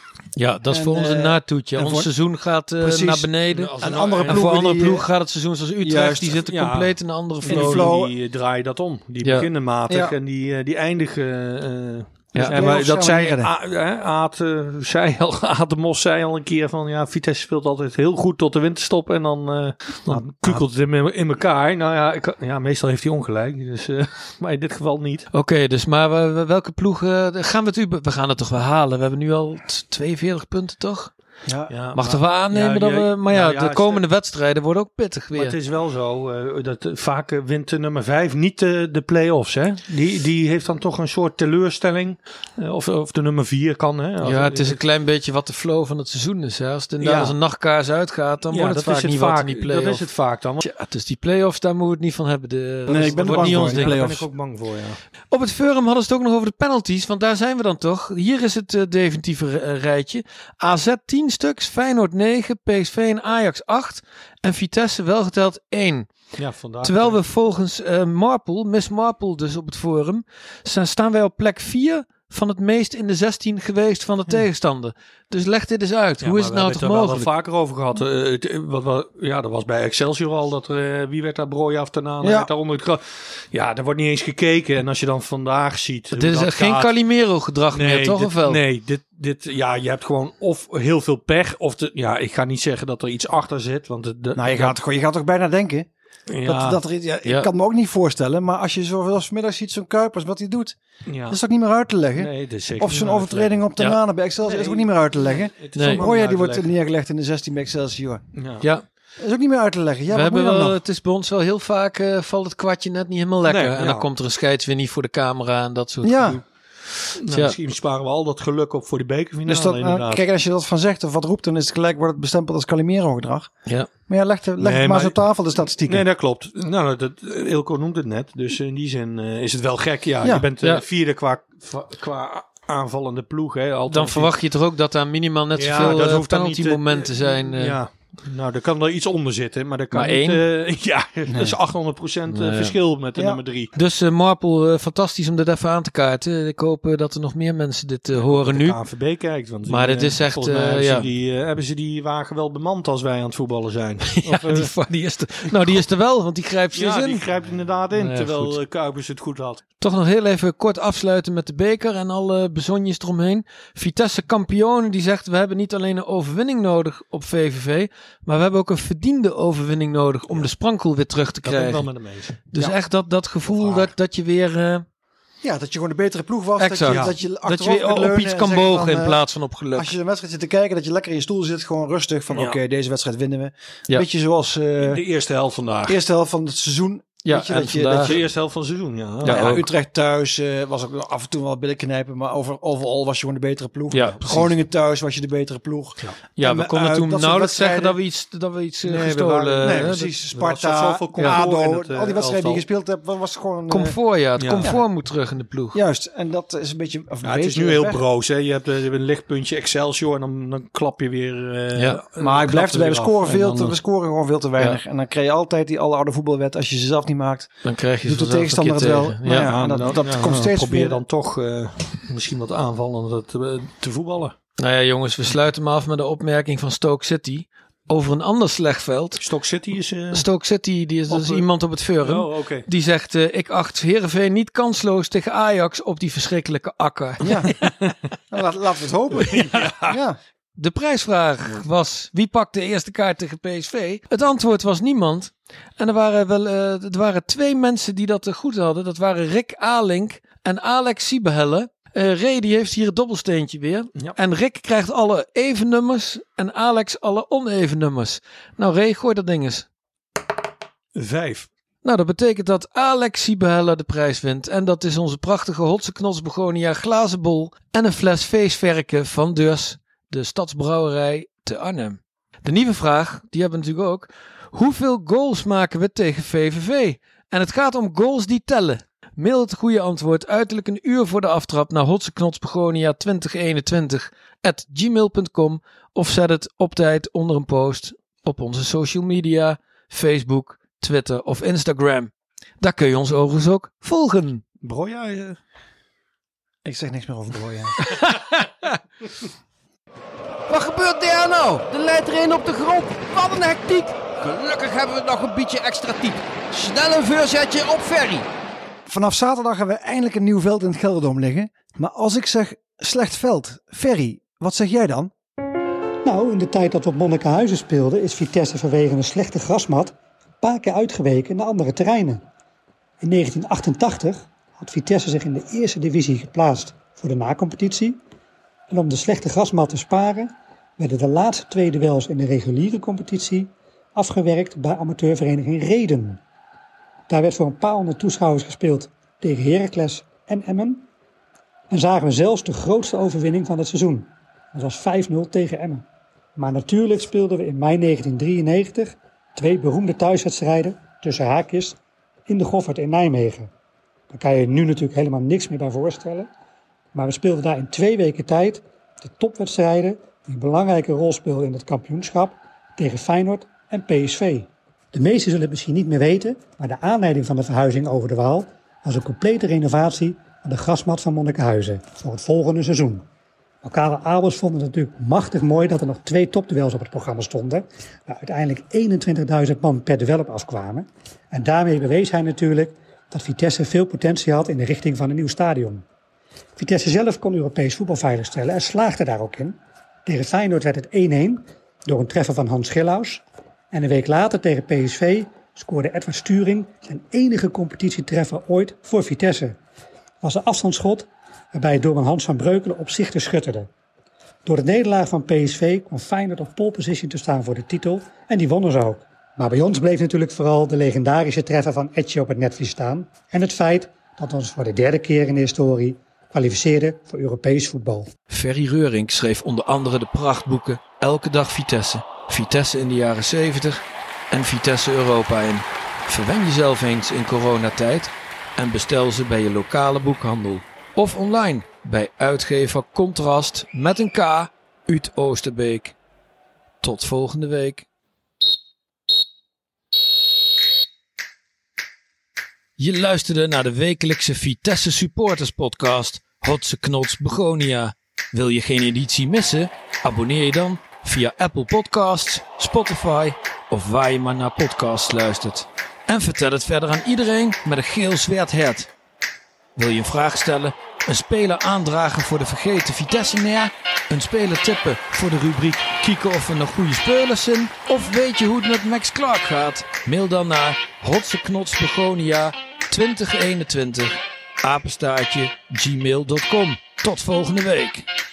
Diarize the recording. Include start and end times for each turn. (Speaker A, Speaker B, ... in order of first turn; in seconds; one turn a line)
Speaker A: 0.3-7.9
Speaker B: 0.7-2.1
Speaker B: 2.8-5.0
Speaker C: 3.5-4.5
Speaker B: 5.8-6.4
Speaker C: 6.4-25.3
Speaker B: 7.4-8.1
Speaker A: 9.2-9.5
Speaker B: 9.9-10.2
Speaker A: 12.3-12.6
Speaker B: 12.4-13.5
Speaker B: 20.1-20.6
Speaker A: 25.3-31.1
Speaker B: 31.4-31.7
Speaker C: 31.7-34.0
Speaker A: 31.9-35.5
Speaker C: 35.3-44.8
Speaker A: 44.2-50.1
Speaker C: 47.0-47.4
Speaker C: 48.5-50.6
Speaker A: 50.6-54.0
Speaker C: 52.9-55.0
Speaker B: 52.9-54.3
Speaker A: 55.3-66.1
Speaker C: 66.3-67.2
Speaker A: 66.8-77.3
Speaker C: 76.2-86.9
Speaker B: 82.2-82.5
Speaker A: 86.1-88.6
Speaker C: 87.7-94.8
Speaker B: 94.3-95.9
Speaker C: 96.3-96.8
Speaker B: 96.4-108.2
Speaker C: 101.1-101.4
Speaker C: 102.1-103.6
Speaker C: 104.4-106.7
Speaker A: 105.7-106.0
Speaker C: 108.3-108.7
Speaker B: 109.2-110.8
Speaker A: 110.1-116.4
Speaker C: 113.5-114.1
Speaker B: 116.0-116.4
Speaker C: 117.2-120.2
Speaker A: 117.3-117.5
Speaker B: 119.4-123.5
Speaker B: 124.1-126.0
Speaker C: 124.6-125.2
Speaker C: 125.7-134.3
Speaker B: 130.2-130.5
Speaker A: 133.9-137.8
Speaker C: 135.6-143.7
Speaker A: 139.9-140.4
Speaker B: 141.3-141.6
Speaker A: 142.3-142.7
Speaker A: 143.7-148.8
Speaker C: 148.2-154.7
Speaker A: 149.7-151.1
Speaker A: 154.1-157.3
Speaker C: 155.5-155.8
Speaker C: 156.7-159.6
Speaker A: 157.9-158.6
Speaker A: 159.8-171.9
Speaker C: 171.4-172.4
Speaker A: 172.5-174.8
Speaker B: 173.5-173.9
Speaker B: 175.4-185.0
Speaker A: 176.6-179.9
Speaker C: 176.8-177.2
Speaker C: 182.3-182.6
Speaker C: 184.8-186.0
Speaker B: 185.9-188.2
Speaker A: 187.2-188.2
Speaker C: 188.0-189.6
Speaker A: 189.2-189.7
Speaker B: 189.2-198.0
Speaker A: 193.9-194.5
Speaker A: 196.4-200.1
Speaker B: 198.8-204.0
Speaker C: 199.3-202.6
Speaker A: 201.2-201.4
Speaker A: 203.7-205.8
Speaker C: 204.4-204.7
Speaker B: 205.7-208.0
Speaker C: 207.2-213.8
Speaker A: 211.7-212.0
Speaker B: 212.2-221.0
Speaker A: 217.6-219.5
Speaker C: 219.3-224.3
Speaker A: 224.6-229.2
Speaker C: 229.2-230.2
Speaker A: 230.1-237.5
Speaker C: 231.1-231.5
Speaker C: 232.0-232.7
Speaker B: 237.2-237.6
Speaker C: 237.6-237.9
Speaker B: 238.3-240.2
Speaker C: 239.2-240.0
Speaker A: 240.6-259.6
Speaker C: 260.9-261.5
Speaker A: 261.8-294.4
Speaker C: 294.6-295.4
Speaker B: 296.6-297.8
Speaker A: 297.8-298.2
Speaker D: 300.5-308.3
Speaker B: 308.9-315.1
Speaker E: 316.0-322.2
Speaker E: 323.0-328.0
Speaker E: 328.7-336.2
Speaker E: 337.1-340.9
Speaker E: 341.7-345.8
Speaker E: 346.4-353.5
Speaker E: 354.1-356.3
Speaker E: 356.9-373.1
Speaker E: 373.6-385.8
Speaker E: 386.6-399.6
Speaker E: 400.2-403.7
Speaker E: 404.4-418.1
Speaker A: 418.3-435.9
Speaker A: 436.8-437.9
Speaker A: 442.8-458.9
Speaker A: 459.8-478.1